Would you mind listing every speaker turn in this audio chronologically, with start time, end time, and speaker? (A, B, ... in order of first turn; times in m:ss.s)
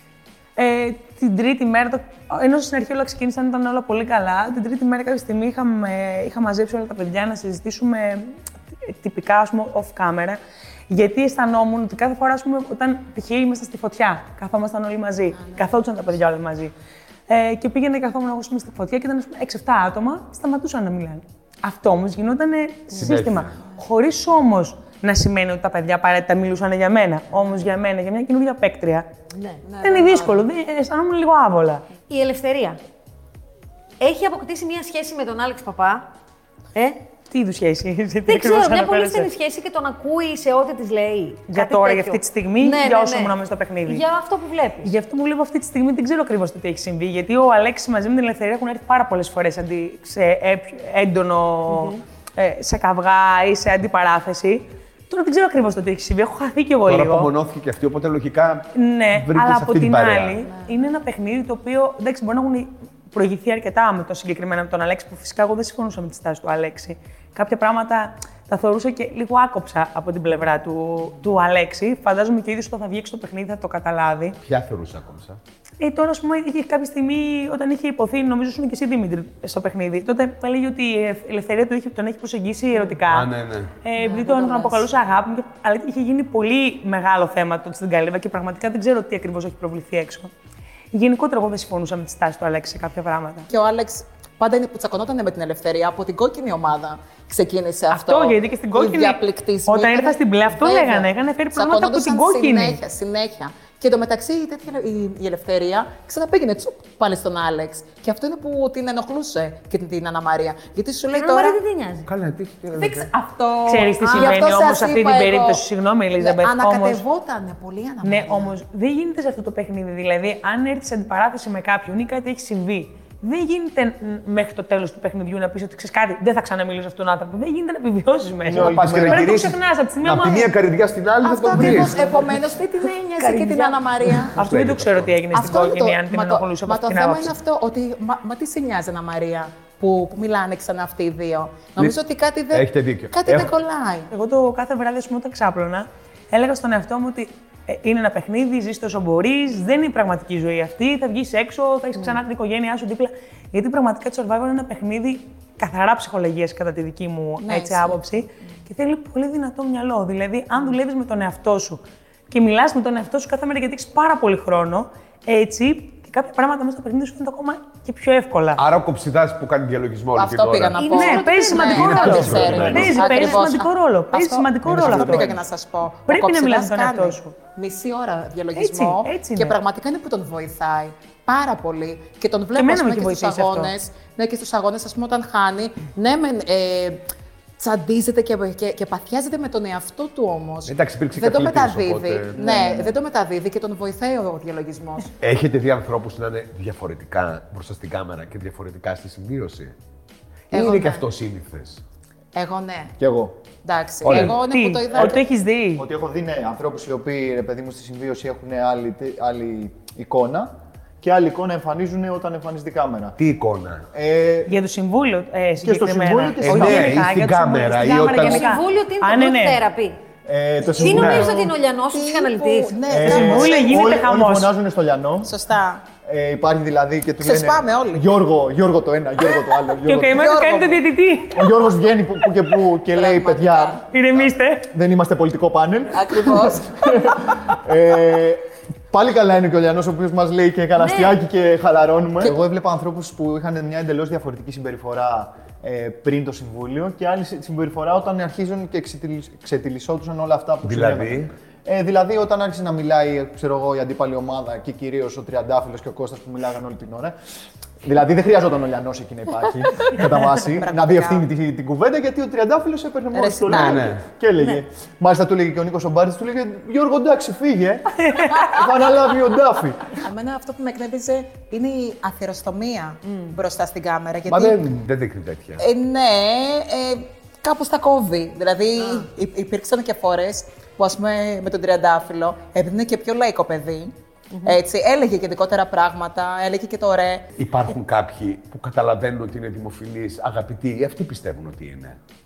0:00.6-0:16.7 A
0:15.4-0:15.7 B
0:17.3-0:29.1 A
0:22.9-0:23.6 C
0:29.3-0:29.6 D
0:29.6-0:30.4 B
0:29.8-0:31.8 A
0:32.1-0:32.8 D
0:34.0-0:36.1 D
0:37.3-0:39.3 A
0:38.3-0:44.9 D
0:41.5-0:44.0 A
0:44.8-0:57.3 A
0:51.7-0:52.0 D
0:56.8-1:00.4 C
0:58.7-1:14.4 A
1:14.4-1:15.4 C
1:15.8-1:23.3 A
1:23.0-1:23.7 C
1:23.8-1:30.3 A
1:24.0-1:24.8 B
1:30.9-1:33.5 A
1:33.5-1:51.6 B
1:37.9-1:42.8 A
1:51.1-1:52.1 D
1:52.0-1:53.1 C
1:52.7-1:55.6 B
1:53.6-1:57.0 A
1:54.0-1:54.4 D
1:56.2-1:58.5 B
1:58.0-2:10.5 A
2:08.4-2:09.4 E
2:08.5-2:12.1 C
2:11.2-2:14.4 B
2:11.6-2:12.0 A
2:13.2-2:13.7 D
2:14.3-2:17.3 A
2:14.4-2:15.1 C
2:15.3-2:24.1 B
2:22.5-2:23.5 C
2:24.1-2:48.6 A
2:37.4-2:38.2 B
2:48.6-2:50.8 C
2:50.2-3:07.1 B
2:50.8-2:53.2 D
2:50.8-2:55.3 A
2:51.7-2:53.3 C
2:52.4-2:52.8 E
2:54.6-2:55.4 E
2:56.1-2:57.4 A
2:58.5-2:59.6 A
3:02.5-3:03.7 A
3:07.6-3:15.1 B
3:10.6-3:12.8 C
3:12.4-3:12.9 E
3:15.2-3:19.7 C
3:20.5-3:21.8 C
3:20.5-3:21.0 B
3:22.3-3:22.9 B
3:23.0-3:23.4 E
3:23.6-3:25.2 B
3:24.0-3:24.4 C
3:24.1-3:25.8 A
3:25.8-3:33.2 E
3:33.2-3:33.8 C
3:33.9-3:34.5 E
3:34.5-3:39.6 A
3:35.6-3:37.1 E
3:36.4-3:38.4 C
3:37.9-3:40.0 D
3:40.2-3:41.5 E
3:40.7-3:42.8 D
3:40.8-3:44.0 B
3:42.9-3:45.3 E
3:43.0-3:44.5 A
3:45.2-3:45.8 B
3:46.0-3:50.4 E
3:47.2-3:48.1 B
3:49.8-3:51.5 A
3:50.1-3:50.8 B
3:51.3-4:17.1 E
3:52.9-3:53.8 B
3:53.9-3:54.7 A
3:55.9-3:57.6 B
4:00.8-4:01.1 D
4:10.6-4:11.3 C
4:17.8-4:29.9 E
4:20.4-4:21.2 B
4:23.1-4:23.9 B
4:23.5-4:24.0 C
4:29.9-4:34.7 B
4:33.0-4:33.4 D
4:34.3-4:35.6 C
4:35.6-4:47.2 B
4:38.8-4:39.0 D
4:44.3-4:44.6 D
4:47.4-4:52.0 C